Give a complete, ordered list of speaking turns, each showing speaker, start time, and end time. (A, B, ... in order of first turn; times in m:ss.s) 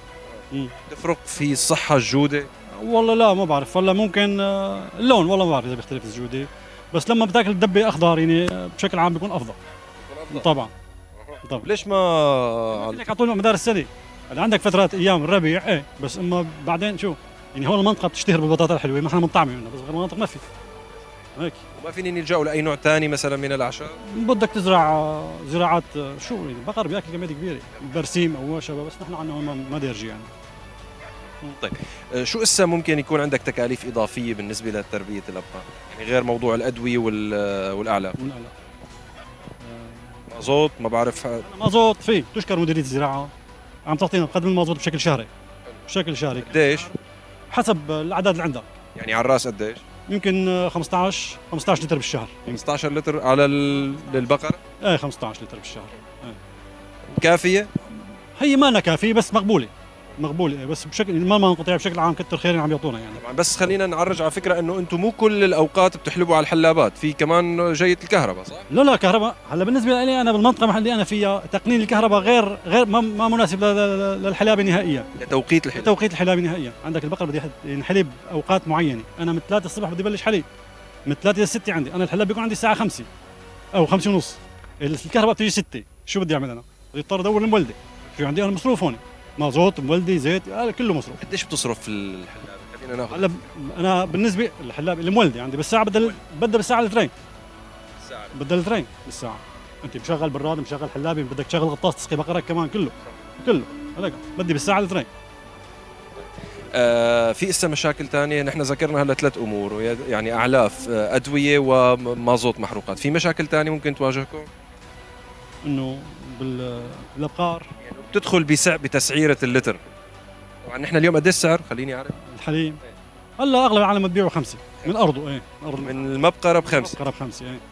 0:00.9-0:02.5 A
0:02.7-0:09.6 B
0:10.1-0:10.4 A
0:10.3-0:10.7 B
0:11.2-0:13.0 A
0:12.7-0:20.4 B
0:21.4-0:21.6 B
0:21.8-0:23.9 A
0:24.0-0:30.3 B
0:31.6-0:38.2 A
0:38.2-0:38.5 B
0:39.6-0:40.2 B
0:40.3-0:41.4 A
0:41.4-0:43.3 B
0:43.9-0:45.3 B
0:45.9-0:47.0 B
0:46.4-0:46.9 A
0:47.5-0:48.7 B
0:49.0-0:49.8 A
0:50.1-0:52.6 B
0:52.5-0:54.6 A
0:54.8-0:56.4 B
0:57.2-0:57.7 A
0:58.4-1:03.2 B
1:03.2-1:08.7 A
1:08.7-1:15.1 B
1:15.2-1:15.9 A
1:15.7-1:20.4 B
1:21.1-1:23.1 B
1:23.7-1:31.2 B
1:31.2-1:33.5 A
1:33.1-1:37.1 B
1:38.0-1:38.3 A
1:38.3-1:45.1 B
1:46.7-1:54.5 A
1:55.6-1:57.7 B
1:57.8-1:59.8 A
2:00.6-2:02.1 A
2:02.2-2:02.8 B
2:03.4-2:06.0 B
2:05.8-2:07.0 A
2:06.6-2:07.6 B